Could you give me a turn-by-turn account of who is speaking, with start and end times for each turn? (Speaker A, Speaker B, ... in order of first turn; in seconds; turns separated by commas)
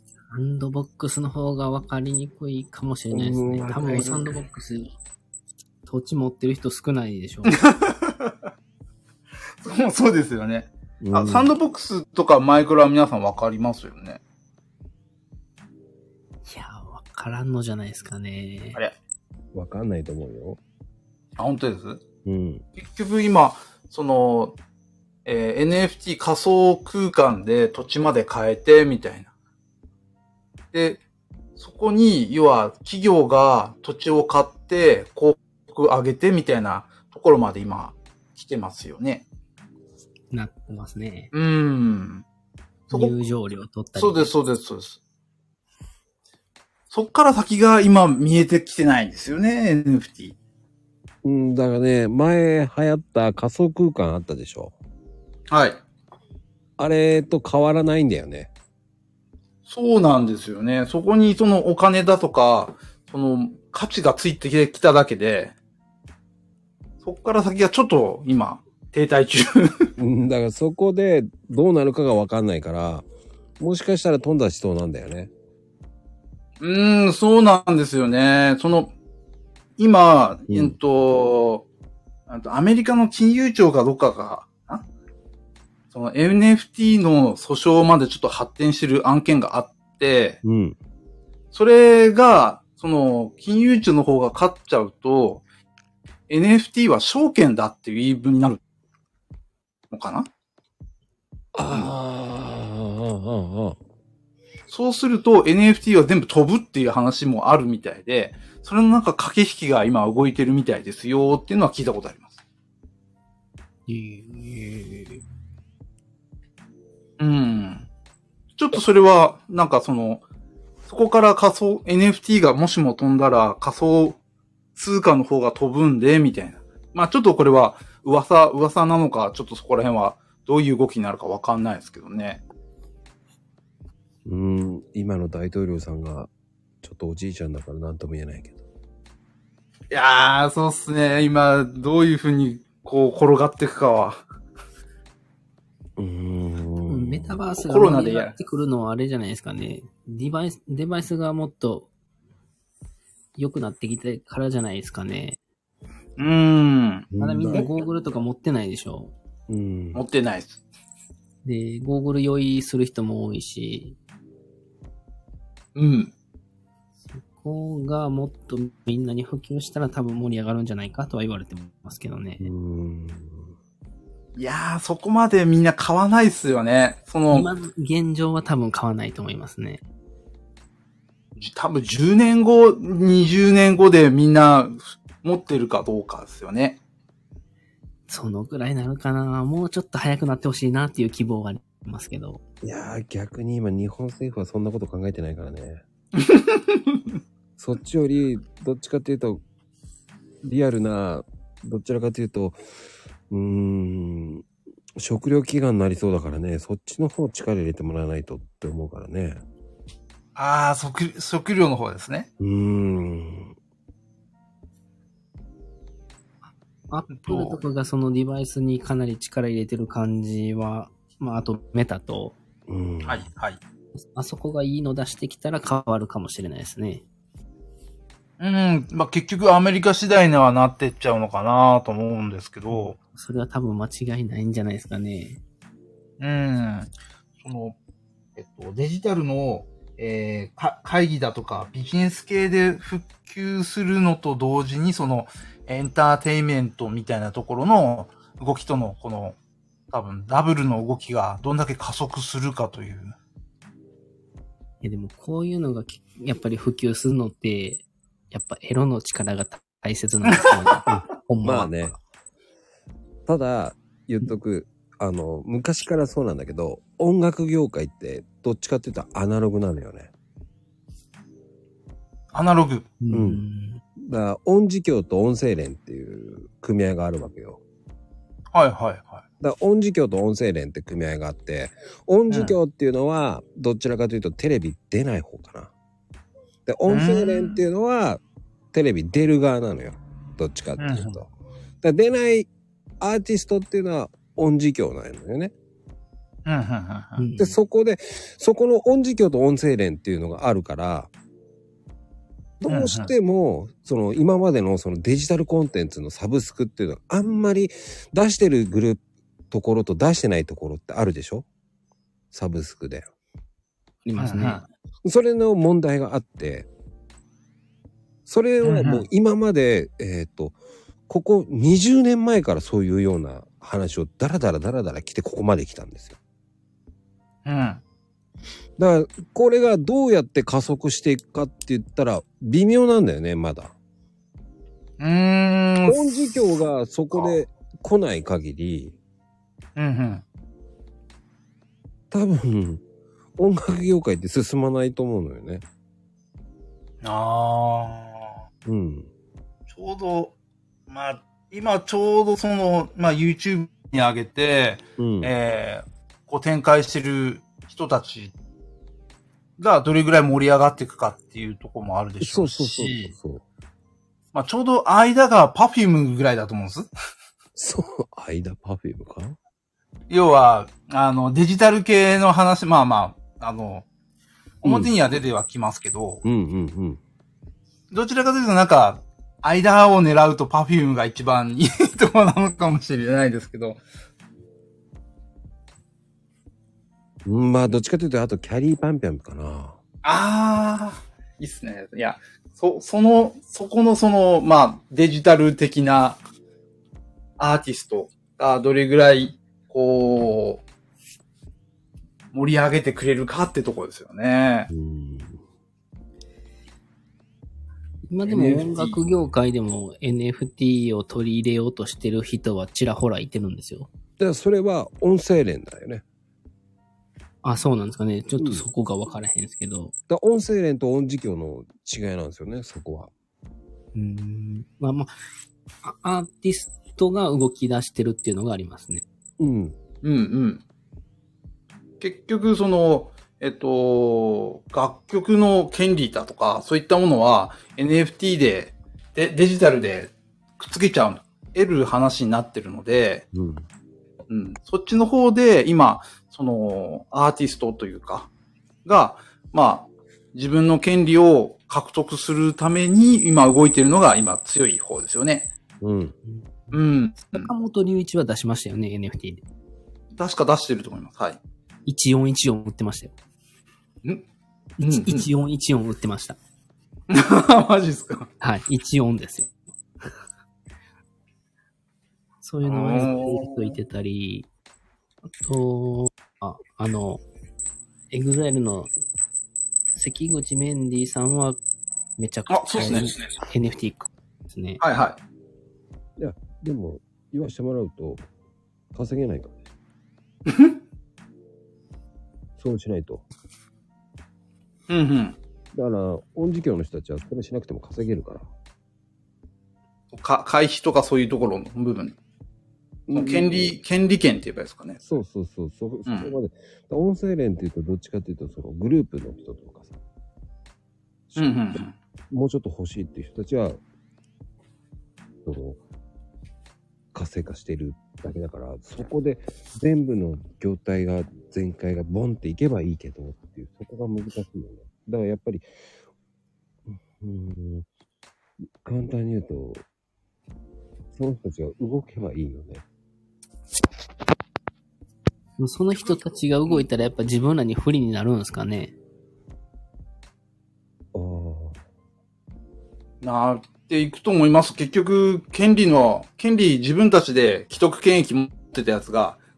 Speaker A: 0.3-4.9, Speaker B: 3.1-4.3, Speaker A: 5.8-7.6, Speaker C: 7.5-8.3, Speaker C: 9.6-14.2, Speaker B: 11.0-11.5, Speaker A: 16.4-18.8, Speaker B: 19.5-20.6, Speaker C: 21.4-22.0, Speaker B: 22.2-22.6, Speaker C: 22.8-24.6, Speaker C: 25.2-29.3, Speaker C: 30.7-31.0, Speaker C: 31.6-39.2, Speaker A: 40.3-41.3, Speaker C: 41.3-42.2, Speaker C: 42.9-43.2, Speaker A: 42.9-44.3, Speaker C: 43.9-45.0, Speaker C: 46.9-50.3, Speaker B: 51.2-54.7, Speaker C: 55.5-55.8, Speaker B: 56.8-58.5, Speaker C: 59.7-65.5, Speaker C: 67.0-69.9, Speaker B: 70.0-73.1, Speaker B: 73.6-75.3, Speaker C: 76.6-78.9, Speaker C: 79.8-81.7, Speaker B: 80.5-80.8, Speaker C: 82.3-84.8, Speaker C: 85.9-90.4, Speaker B: 90.4-90.8, Speaker C: 91.5-95.4, Speaker C: 96.3-98.6, Speaker C: 99.9-100.3, Speaker B: 101.5-103.8, Speaker C: 104.7-112.3, Speaker A: 113.9-115.2, Speaker C: 117.2-117.9, Speaker C: 118.5-120.2, Speaker C: 120.9-124.2, Speaker C: 124.8-132.4, Speaker B: 134.2-136.3, Speaker B: 136.8-138.6, Speaker C: 139.9-144.2, Speaker B: 146.0-147.4, Speaker A: 146.8-151.9, Speaker C: 147.7-148.3, Speaker A: 153.4-155.4, Speaker C: 156.2-157.7, Speaker B: 157.1-157.7, Speaker A: 157.2-159.1, Speaker B: 159.5-160.0, Speaker C: 159.9-160.6, Speaker A: 161.4-164.0, Speaker C: 165.7-166.1, Speaker A: 167.1-172.5, Speaker B: 172.4-173.5, Speaker C: 174.3-177.5, Speaker A: 177.3-179.8, Speaker C: 181.4-186.8, Speaker A: 188.1-192.4, Speaker B: 192.6-195.8, Speaker C: 196.1-197.0, Speaker B: 197.6-199.4, Speaker B: 200.4-202.6, Speaker B: 203.3-204.4, Speaker B: 204.9-209.4, Speaker C: 210.3-212.3, Speaker B: 212.4-213.5, Speaker A: 216.9-222.4, Speaker C: 217.1-217.6, Speaker B: 222.7-223.3, Speaker C: 223.0-223.6, Speaker A: 224.0-227.0, Speaker C: 228.4-233.0, Speaker A: 232.7-235.4, Speaker C: 236.2-237.8, Speaker C: 238.3-249.3, Speaker C: 249.9-253.1, Speaker A: 254.8-262.0, Speaker B: 260.9-261.9, Speaker B: 263.3-270.1, Speaker C: 272.3-272.9, Speaker A: 273.0-273.8, Speaker B: 273.1-273.4, Speaker B: 274.0-277.6, Speaker C: 278.5-279.2, Speaker B: 279.4-285.7, Speaker C: 282.3-282.6, Speaker B: 286.6-288.2, Speaker C: 286.9-287.6, Speaker B: 288.7-291.3, Speaker C: 290.8-291.2, Speaker B: 291.8-292.5, Speaker B: 293.0-295.5, Speaker C: 296.4-297.2, Speaker A: 297.2-297.6, Speaker B: 297.4-301.1, Speaker B: 302.6-311.4, Speaker C: 302.7-303.1, Speaker B: 312.3-313.1, Speaker A: 314.0-314.6, Speaker C: 314.2-314.6, Speaker B: 315.0-316.7, Speaker B: 318.3-320.6, Speaker C: 318.6-319.0, Speaker B: 321.1-326.2, Speaker C: 327.4-327.8, Speaker B: 328.8-333.7, Speaker C: 335.0-336.0, Speaker B: 335.9-339.0, Speaker C: 339.8-340.2, Speaker B: 342.1-342.8, Speaker B: 343.4-345.6, Speaker C: 347.0-348.4, Speaker B: 348.6-349.1, Speaker C: 349.7-350.3, Speaker C: 350.9-358.3, Speaker B: 355.0-355.3, Speaker C: 359.6-363.1, Speaker B: 362.2-363.4, Speaker C: 364.3-366.9, Speaker B: 367.6-369.4, Speaker C: 370.1-373.9, Speaker C: 374.6-376.2, Speaker B: 374.6-374.9, Speaker B: 376.2-377.0, Speaker C: 377.9-383.8, Speaker B: 387.2-389.8, Speaker C: 390.0-396.2, Speaker C: 397.4-400.6, Speaker C: 402.3-404.7, Speaker B: 404.7-405.4, Speaker A: 408.1-413.9, Speaker C: 408.2-409.0, Speaker B: 414.2-416.0, Speaker A: 417.4-419.9, Speaker B: 418.4-418.6, Speaker B: 420.1-423.1, Speaker A: 423.9-425.1, Speaker A: 425.8-429.0, Speaker B: 429.4-429.8, Speaker C: 430.0-430.6, Speaker C: 432.0-443.2, Speaker B: 443.3-443.6, Speaker C: 444.3-448.3, Speaker C: 448.8-455.5, Speaker B: 455.8-456.1, Speaker A: 456.2-459.4, Speaker C: 456.7-457.5, Speaker C: 460.1-461.4, Speaker A: 461.9-463.1, Speaker A: 464.8-466.4, Speaker C: 464.8-465.3, Speaker C: 467.1-468.3, Speaker A: 468.4-469.5, Speaker A: 472.4-474.5, Speaker C: 472.6-473.8, Speaker A: 475.4-477.2, Speaker A: 478.1-478.9, Speaker A: 479.9-481.6, Speaker A: 482.2-484.8, Speaker C: 482.5-483.3, Speaker C: 484.8-485.2, Speaker B: 486.2-488.2, Speaker B: 488.9-489.7, Speaker C: 490.5-490.8, Speaker B: 492.6-493.2, Speaker C: 494.9-495.4, Speaker B: 495.7-498.5, Speaker C: 500.1-502.2, Speaker B: 503.1-503.8, Speaker C: 503.1-505.0, Speaker B: 505.0-509.9, Speaker C: 506.1-506.3, Speaker B: 511.3-513.8, Speaker C: 511.4-511.9, Speaker B: 515.4-515.8, Speaker B: 517.1-525.6, Speaker B: 526.9-527.9, Speaker B: 528.8-529.8, Speaker B: 531.1-532.8, Speaker A: 535.6-538.9, Speaker B: 541.1-541.8, Speaker C: 543.2-549.4